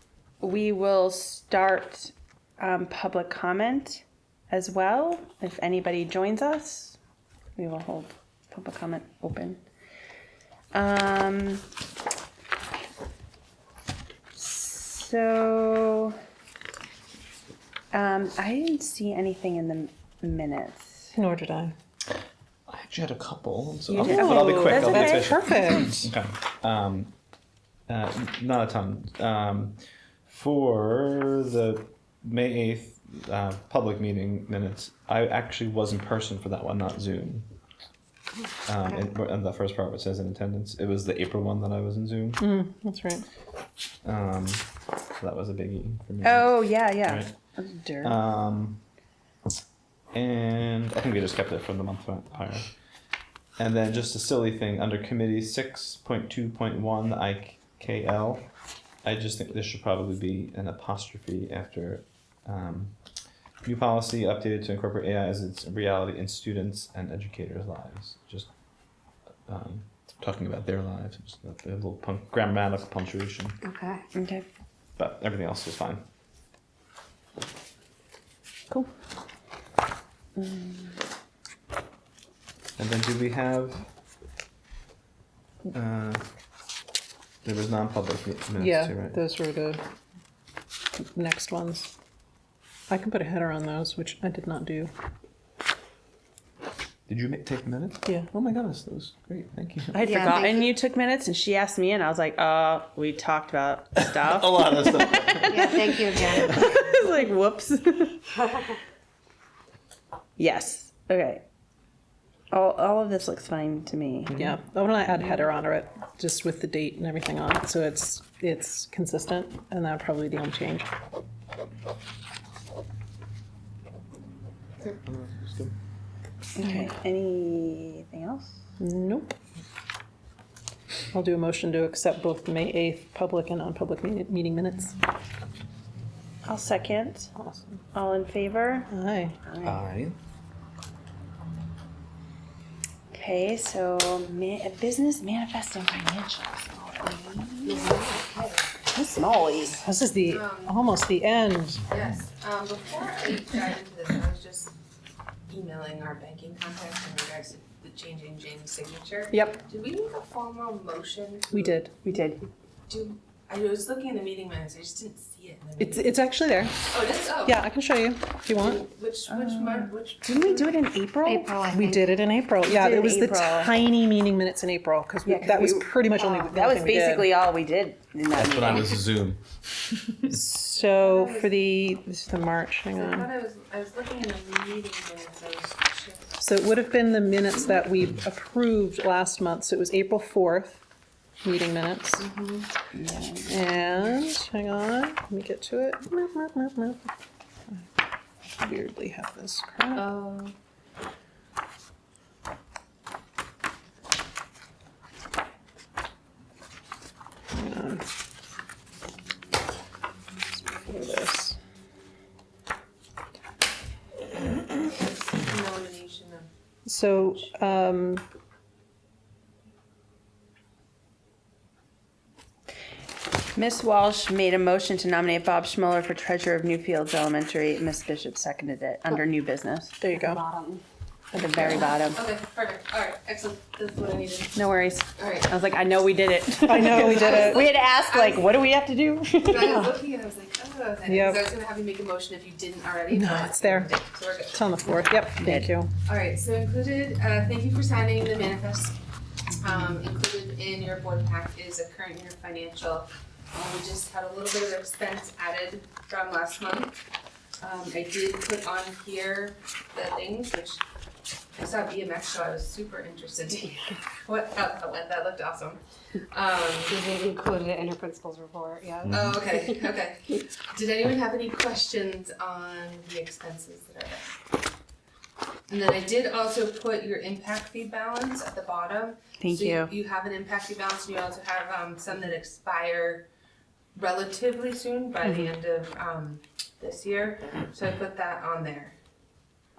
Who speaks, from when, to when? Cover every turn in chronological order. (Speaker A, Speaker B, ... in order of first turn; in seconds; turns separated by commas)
Speaker A: 0.4-7.0, Speaker A: 7.5-9.6, Speaker A: 10.7-11.6, Speaker A: 14.3-16.1, Speaker A: 17.9-21.1, Speaker B: 21.1-21.7, Speaker C: 22.7-27.1, Speaker A: 23.9-25.4, Speaker B: 24.0-26.0, Speaker C: 27.9-37.5, Speaker C: 38.6-42.4, Speaker B: 42.4-43.2, Speaker C: 44.0-44.6, Speaker C: 45.2-47.3, Speaker A: 46.2-48.1, Speaker C: 48.0-48.8, Speaker C: 50.1-52.7, Speaker C: 53.6-58.5, Speaker C: 59.0-63.0, Speaker C: 63.6-68.5, Speaker C: 69.5-73.6, Speaker D: 73.6-74.0, Speaker A: 74.1-74.5, Speaker C: 75.0-76.0, Speaker A: 80.4-80.9, Speaker C: 82.8-83.8, Speaker C: 85.7-86.2, Speaker C: 87.4-89.2, Speaker B: 88.6-89.8, Speaker B: 91.0-91.9, Speaker B: 92.9-94.9, Speaker C: 97.1-100.4, Speaker D: 99.9-100.7, Speaker A: 100.0-108.2, Speaker C: 104.1-106.6, Speaker D: 105.5-106.7, Speaker A: 110.4-111.4, Speaker A: 112.5-114.4, Speaker B: 114.3-120.9, Speaker C: 124.8-125.7, Speaker A: 126.5-128.6, Speaker B: 128.8-129.3, Speaker B: 131.1-134.9, Speaker A: 136.4-137.3, Speaker B: 137.3-137.8, Speaker A: 137.9-138.9, Speaker B: 138.9-139.4, Speaker A: 139.4-139.8, Speaker C: 139.6-140.2, Speaker A: 143.1-147.9, Speaker D: 147.6-148.5, Speaker A: 148.9-149.8, Speaker B: 149.6-151.9, Speaker E: 150.3-150.8, Speaker E: 151.9-154.7, Speaker E: 155.5-161.8, Speaker B: 159.3-159.6, Speaker B: 161.5-162.4, Speaker E: 162.9-166.2, Speaker B: 165.8-166.9, Speaker E: 166.9-167.6, Speaker B: 167.4-168.9, Speaker E: 168.5-170.8, Speaker A: 169.3-171.9, Speaker D: 171.2-172.1, Speaker B: 171.7-177.3, Speaker A: 172.6-173.8, Speaker A: 175.2-179.0, Speaker C: 178.3-180.3, Speaker B: 180.2-183.3, Speaker E: 181.0-181.6, Speaker E: 182.9-186.3, Speaker B: 186.4-190.8, Speaker B: 191.4-192.3, Speaker E: 192.2-192.7, Speaker A: 192.9-193.6, Speaker B: 193.5-197.1, Speaker B: 198.6-200.1, Speaker E: 199.9-200.5, Speaker B: 207.5-208.1, Speaker B: 210.8-211.6, Speaker E: 214.8-216.5, Speaker B: 216.8-218.2, Speaker A: 223.6-229.9, Speaker B: 230.0-230.4, Speaker D: 230.1-230.8, Speaker A: 231.3-232.2, Speaker E: 232.1-234.5, Speaker A: 234.5-239.9, Speaker E: 235.2-235.5, Speaker B: 236.6-237.7, Speaker E: 236.7-238.6, Speaker E: 239.4-244.7, Speaker B: 241.1-241.4, Speaker B: 243.1-243.9, Speaker B: 244.5-245.9, Speaker A: 245.4-245.7, Speaker E: 246.1-248.9, Speaker E: 249.6-257.0, Speaker E: 257.6-260.8, Speaker E: 261.6-267.0, Speaker D: 266.8-269.8, Speaker C: 269.1-269.4, Speaker E: 269.1-274.3, Speaker E: 275.7-283.2, Speaker A: 279.4-279.9, Speaker E: 283.9-288.9